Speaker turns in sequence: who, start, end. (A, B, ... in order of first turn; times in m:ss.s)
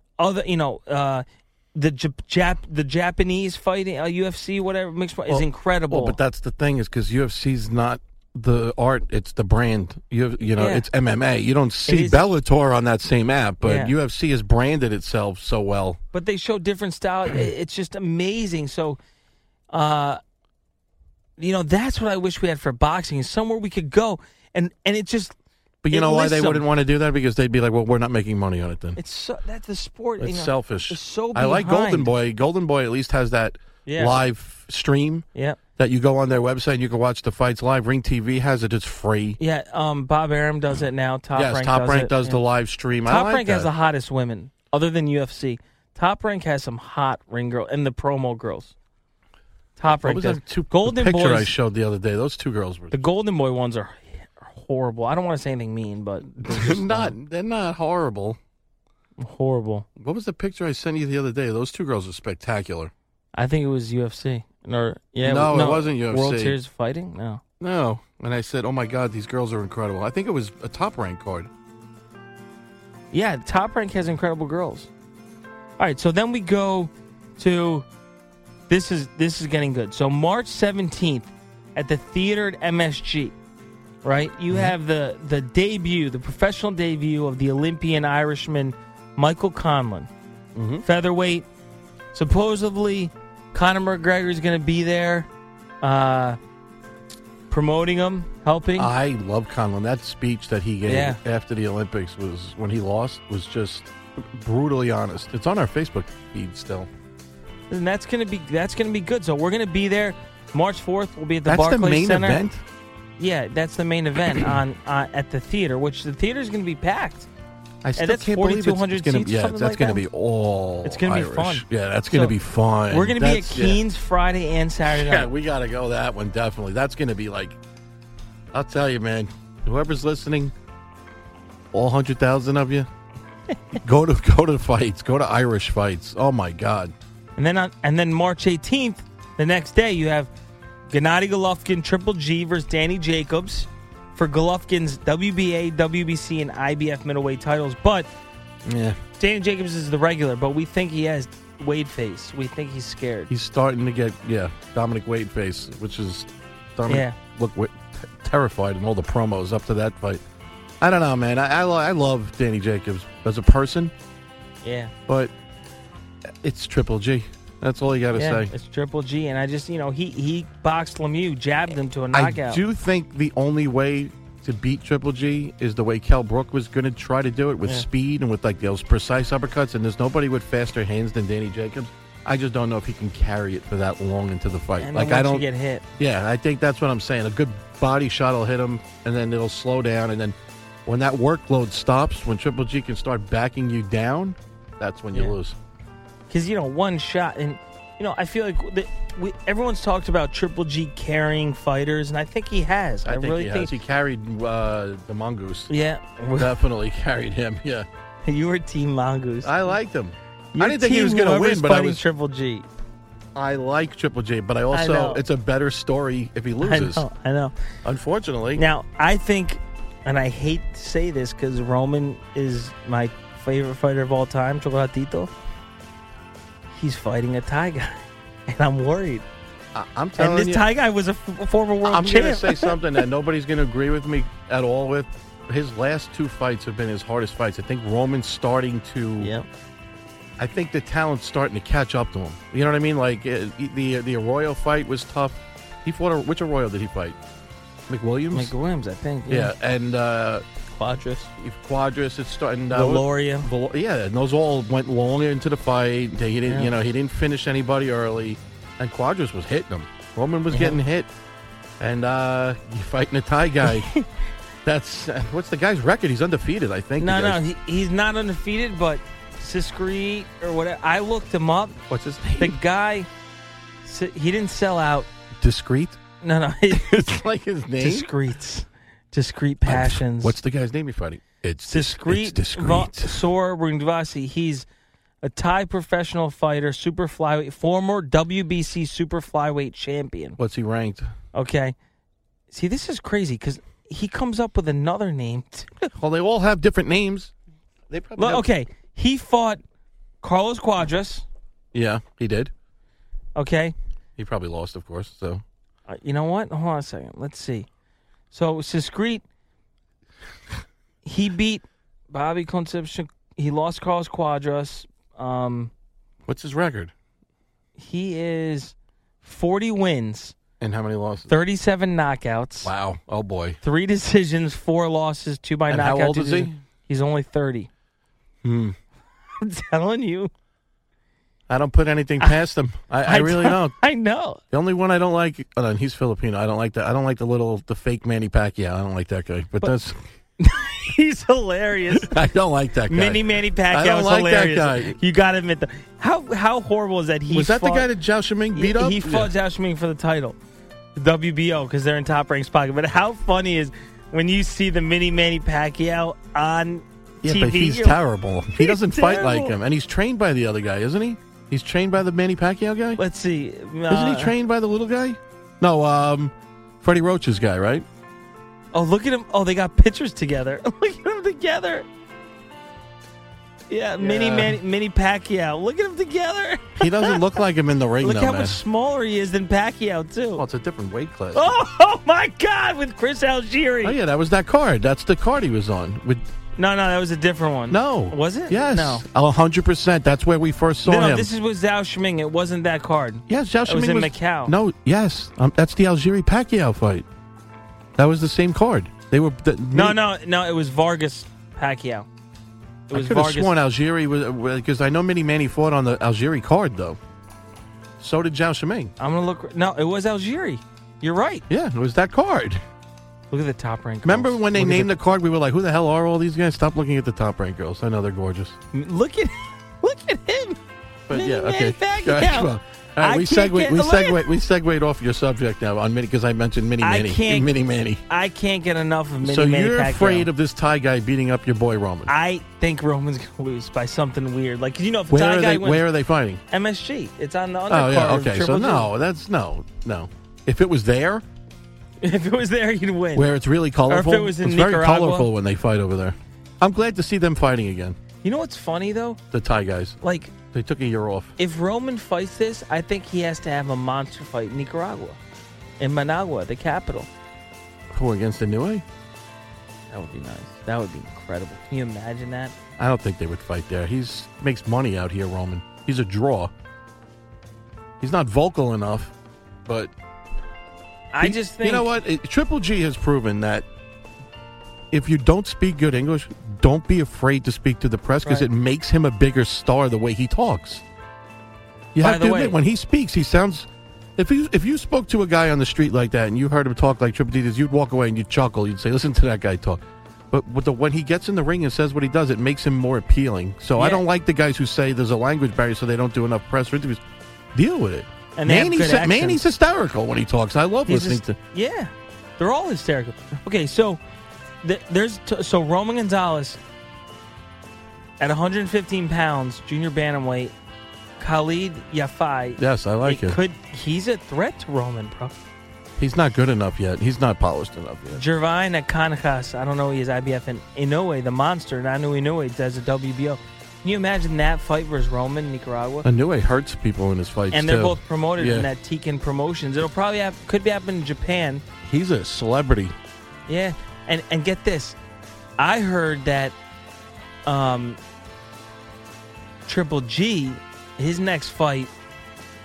0:00.2-0:06.2 A
0:05.3-0:16.0 B
0:10.6-0:10.9 A
0:11.9-0:12.3 A
0:13.6-0:13.9 A
0:16.1-0:19.0 A
0:19.7-0:20.2 A
0:21.4-0:25.4 A
0:25.8-0:29.0 B
0:25.9-0:26.7 A
0:29.0-0:32.1 A
0:30.2-0:35.3 B
0:33.9-0:34.2 A
0:35.8-0:39.4 B
0:39.4-0:42.4 A
0:41.4-0:43.7 B
0:43.1-0:48.7 A
0:49.8-0:51.5 A
0:50.0-0:53.0 B
0:52.9-0:57.1 A
0:56.4-0:58.4 B
0:59.2-0:59.9 A
1:00.0-1:02.9 B
1:03.4-1:07.4 A
1:05.2-1:06.6 B
1:07.6-1:11.5 B
1:13.1-1:14.9 A
1:15.8-1:17.9 A
1:18.7-1:23.3 A
1:24.0-1:30.1 A
1:24.5-1:24.8 B
1:30.6-1:30.8 B
1:30.8-1:31.5 A
1:32.1-1:35.3 A
1:35.8-1:36.4 A
1:37.5-1:38.9 A
1:38.8-1:46.9 B
1:40.9-1:41.2 A
1:47.7-1:52.4 A
1:51.5-1:52.6 B
1:53.2-1:57.3 A
1:57.8-2:03.8 B
1:58.0-2:00.0 A
2:00.8-2:02.4 A
2:02.9-2:05.3 A
2:04.9-2:07.6 B
2:08.5-2:10.5 B
2:11.7-2:12.9 B
2:13.8-2:16.9 B
2:17.4-2:20.3 A
2:20.9-2:28.1 A
2:28.6-2:29.0 B
2:29.2-2:33.3 A
2:33.3-2:40.2 B
2:36.9-2:37.2 A
2:40.8-2:43.9 B
2:44.6-2:44.9 A
2:46.4-2:48.5 B
2:48.2-2:52.6 A
2:52.1-3:05.5 B
3:04.8-3:05.8 A
3:06.0-3:15.6 B
3:16.3-3:23.7 A
3:23.0-3:25.7 B
3:25.7-3:26.6 A
3:26.4-3:27.9 B
3:28.2-3:29.8 A
3:29.4-3:32.0 B
3:30.6-3:32.7 A
3:33.4-3:37.0 B
3:34.7-3:35.2 A
3:36.6-3:37.5 A
3:37.8-3:38.6 B
3:38.6-3:45.3 A
3:46.7-3:49.2 A
3:49.7-3:50.7 B
3:50.2-3:53.0 A
3:51.8-3:59.3 B
3:59.2-3:59.5 A
4:00.4-4:07.2 B
4:07.9-4:08.5 B
4:08.3-4:09.5 A
4:09.3-4:10.4 B
4:10.7-4:11.3 A
4:11.4-4:21.1 B
4:12.7-4:13.5 A
4:20.5-4:20.8 A
4:21.8-4:23.9 B
4:23.7-4:24.0 A
4:24.6-4:27.4 B
4:27.0-4:31.8 A
4:31.9-4:32.6 B
4:32.4-4:33.1 A
4:33.8-4:35.1 A
4:35.4-4:36.0 B
4:36.2-4:37.0 A
4:36.7-4:38.1 B
4:37.8-4:40.4 A
4:39.7-4:43.2 B
4:41.7-4:44.7 A
4:45.2-4:50.4 A
4:50.4-4:51.1 B
4:51.3-4:51.8 A
4:52.5-4:55.9 A
4:55.9-4:57.3 B
4:57.9-4:58.5 B
4:58.2-4:59.6 A
5:00.2-5:01.3 A
5:01.7-5:02.5 B
5:03.4-5:03.8 A
5:04.2-5:05.4 B
5:05.9-5:07.7 A
5:08.3-5:09.2 A
5:11.0-5:15.7 A
5:16.3-5:16.9 B
5:17.8-5:20.4 A
5:20.6-5:21.4 B
5:21.3-5:22.7 A
5:22.6-5:23.6 B
5:23.6-5:27.7 A
5:25.7-5:26.6 B
5:28.4-5:28.8 B
5:29.4-5:30.3 A
5:31.5-5:33.8 B
5:33.0-5:34.4 A
5:34.5-5:40.0 B
5:40.4-5:42.1 A
5:41.9-5:45.0 B
5:42.9-5:47.9 A
5:47.3-5:49.3 B
5:48.5-5:50.4 A
5:51.0-5:58.0 A
5:57.2-6:03.0 B
5:58.6-5:59.6 A
6:03.0-6:04.4 A
6:03.9-6:07.9 B
6:08.7-6:11.9 A
6:13.7-6:17.2 A
6:14.0-6:14.6 B
6:16.8-6:18.6 B
6:18.0-6:20.4 A
6:20.4-6:21.5 B
6:21.3-6:24.0 A
6:23.8-6:26.3 B
6:26.6-6:29.0 A
6:27.7-6:31.3 B
6:30.8-6:34.5 A
6:33.3-6:37.1 B
6:38.0-6:40.0 B
6:39.7-6:42.1 A
6:42.9-6:43.5 A
6:42.9-6:47.0 B
6:48.0-6:48.9 B
6:49.0-6:51.4 A
6:51.5-6:52.6 B
6:53.3-6:55.0 A
6:54.0-6:58.6 B
6:58.7-7:00.6 A
7:01.1-7:08.0 B
7:01.1-7:04.3 A
7:06.8-7:07.5 A
7:08.1-7:10.3 A
7:09.2-7:12.1 B
7:12.1-7:15.8 A
7:15.1-7:16.4 B
7:16.5-7:18.9 A
7:17.7-7:21.2 B
7:22.0-7:23.3 A
7:23.2-7:28.0 B
7:23.9-7:25.3 A
7:28.2-7:29.2 A
7:29.3-7:30.0 B
7:30.0-7:30.4 A
7:30.5-7:31.3 B
7:31.4-7:35.2 A
7:35.8-7:37.1 A
7:37.9-7:38.8 B
7:39.9-7:42.5 A
7:42.8-7:46.5 B
7:48.0-7:49.1 B
7:49.7-7:49.9 B
7:51.1-7:51.9 A
7:51.2-7:53.7 B
7:54.9-8:00.8 B
8:02.0-8:17.0 B
8:02.0-8:02.6 A
8:13.8-8:14.0 A
8:17.5-8:21.4 B
8:18.4-8:19.5 A
8:20.9-8:24.0 A
8:24.6-8:26.6 A
8:28.2-8:30.5 A
8:31.2-8:35.4 A
8:32.6-8:33.4 B
8:36.0-8:38.2 B
8:38.2-8:46.1 A
8:46.0-8:48.7 B
8:47.5-8:51.6 A
8:51.8-8:53.0 B
8:53.5-8:55.0 A
8:55.6-8:56.6 A
8:57.5-8:58.0 A
8:59.7-9:01.9 A